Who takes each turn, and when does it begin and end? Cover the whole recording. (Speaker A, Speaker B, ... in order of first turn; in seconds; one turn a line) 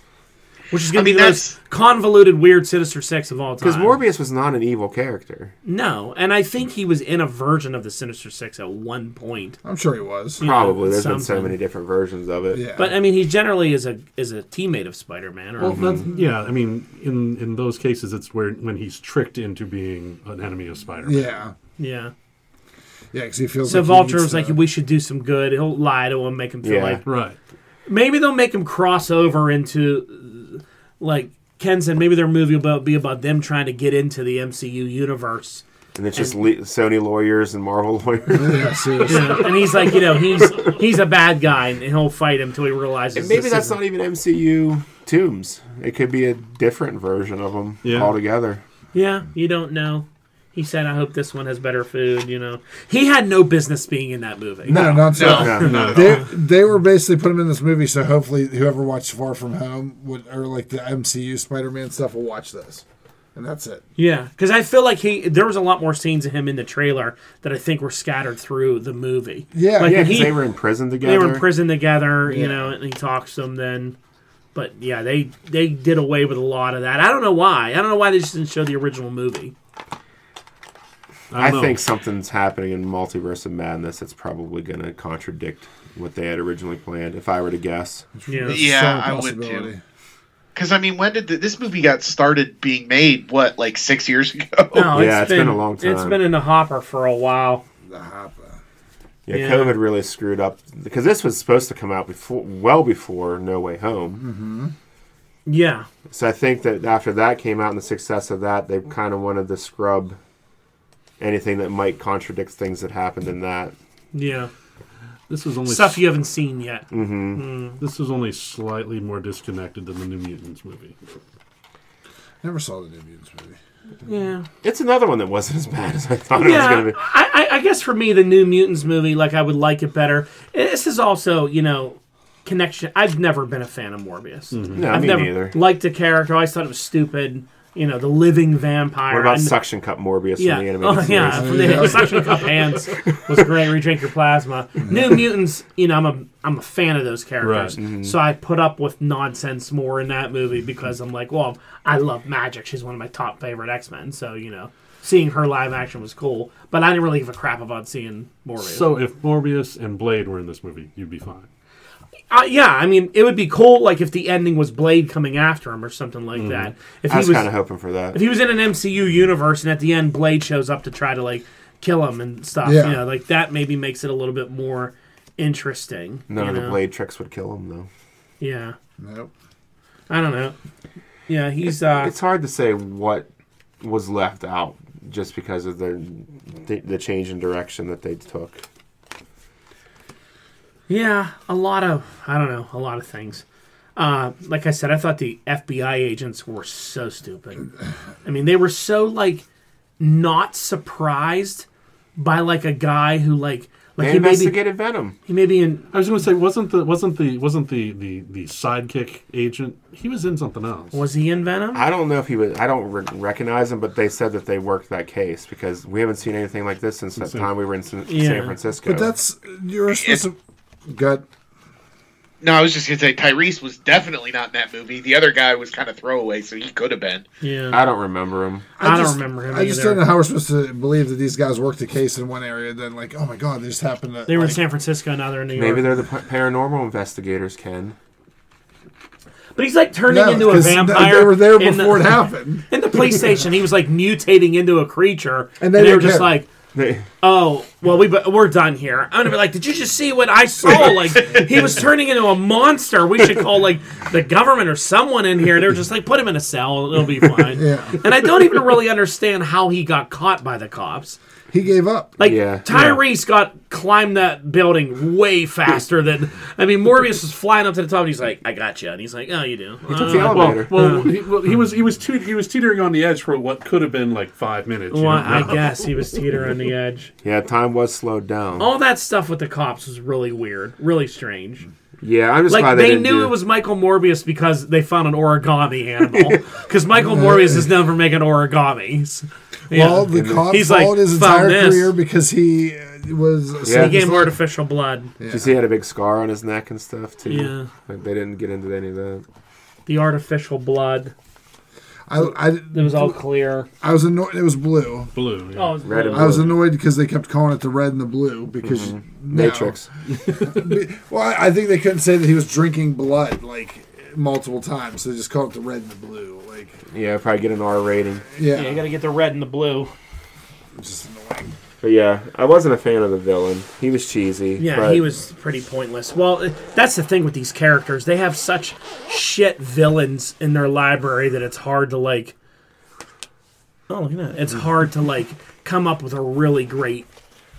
Speaker A: 0.7-4.0
Speaker B: 0.9-1.6
Speaker C: 3.6-5.5
Speaker A: 5.6-9.6
Speaker D: 9.6-10.4
Speaker A: 10.4-11.6
Speaker C: 10.4-12.6
Speaker D: 12.5-12.9
Speaker A: 12.8-16.1
Speaker E: 15.6-21.3
Speaker C: 15.6-16.1
Speaker D: 21.0-21.6
Speaker A: 21.8-22.1
Speaker D: 23.1-24.6
Speaker A: 23.6-27.0
Speaker C: 26.6-27.0
Speaker E: 27.1-27.4
Speaker A: 27.9-35.6
Speaker C: 36.0-38.9
Speaker D: 38.3-39.5
Speaker A: 39.1-43.8
Speaker E: 39.1-39.9
Speaker C: 43.1-48.6
Speaker E: 47.8-48.2
Speaker A: 48.9-55.9
Speaker D: 54.6-62.8
Speaker B: 55.1-56.1
Speaker C: 55.3-55.9
Speaker E: 55.5-56.2
Speaker D: 63.4-63.8
Speaker A: 64.0-70.5
Speaker D: 69.5-70.2
Speaker C: 69.8-71.5
Speaker A: 71.0-74.0
Speaker D: 72.3-72.7
Speaker A: 74.5-79.5
Speaker E: 81.3-81.8
Speaker C: 81.3-88.1
Speaker D: 88.2-89.8
Speaker A: 88.3-88.6
Speaker B: 88.5-89.7
Speaker B: 90.5-94.8
Speaker A: 94.7-97.6
Speaker C: 94.8-96.2
Speaker D: 97.8-98.6
Speaker C: 99.3-104.2
Speaker A: 99.3-99.8
Speaker D: 104.2-104.7
Speaker A: 105.5-105.9
Speaker C: 106.1-110.2
Speaker C: 111.2-113.8
Speaker A: 114.1-114.5
Speaker E: 115.3-116.1
Speaker A: 115.7-117.8
Speaker C: 116.9-117.4
Speaker E: 117.8-121.2
Speaker D: 122.4-123.6
Speaker A: 124.0-124.5
Speaker C: 124.6-127.0
Speaker A: 126.4-139.6
Speaker E: 134.5-135.1
Speaker C: 134.7-135.6
Speaker C: 139.1-142.3
Speaker A: 140.4-158.9
Speaker D: 141.3-142.2
Speaker E: 147.4-147.8
Speaker C: 147.8-148.2
Speaker E: 158.6-161.5
Speaker A: 162.3-167.5
Speaker C: 167.1-168.2
Speaker A: 168.1-176.8
Speaker D: 172.6-173.0
Speaker C: 176.3-177.9
Speaker A: 178.4-178.8
Speaker D: 179.0-179.3
Speaker A: 180.1-180.6
Speaker A: 181.3-182.1
Speaker C: 181.9-183.3
Speaker C: 183.8-188.6
Speaker A: 190.9-193.4
Speaker A: 194.0-197.7
Speaker A: 198.2-199.4
Speaker A: 200.0-204.6
Speaker C: 204.0-205.2
Speaker A: 205.3-205.9
Speaker E: 205.9-211.0
Speaker A: 210.9-211.8
Speaker C: 211.7-219.1
Speaker E: 217.2-217.5
Speaker A: 218.1-218.6
Speaker D: 218.8-220.4
Speaker B: 219.9-220.2
Speaker D: 220.9-221.2
Speaker B: 222.4-227.3
Speaker A: 227.4-227.8
Speaker C: 227.7-228.7
Speaker D: 228.8-234.6
Speaker A: 228.8-230.0
Speaker A: 234.3-235.9
Speaker C: 235.6-238.0
Speaker A: 239.6-246.5
Speaker D: 240.1-242.7
Speaker D: 245.6-246.3
Speaker C: 246.8-247.1
Speaker A: 247.2-261.2
Speaker B: 250.8-251.5
Speaker D: 257.5-258.0
Speaker D: 261.5-262.2
Speaker A: 262.2-271.1
Speaker C: 262.2-262.7
Speaker E: 262.7-263.0
Speaker C: 269.9-270.8
Speaker E: 270.0-275.8
Speaker A: 274.9-277.1
Speaker C: 277.2-278.7
Speaker A: 278.6-281.7
Speaker C: 282.0-283.4
Speaker A: 282.5-291.9
Speaker C: 286.1-286.4
Speaker D: 287.0-287.7
Speaker D: 289.7-294.4
Speaker C: 290.1-290.5
Speaker C: 293.6-294.0
Speaker A: 293.7-295.1
Speaker D: 295.2-295.6
Speaker C: 295.3-299.2
Speaker A: 297.3-297.7
Speaker A: 299.9-301.1
Speaker D: 302.1-303.2
Speaker A: 302.7-303.7
Speaker D: 303.8-305.1
Speaker E: 305.1-305.8
Speaker A: 305.5-306.5
Speaker C: 305.8-306.6
Speaker D: 306.1-316.8
Speaker C: 308.6-309.9
Speaker C: 316.9-318.3
Speaker D: 318.3-318.8
Speaker A: 318.5-319.9
Speaker D: 320.8-321.6
Speaker C: 321.8-325.0
Speaker A: 324.6-332.4
Speaker A: 333.9-337.1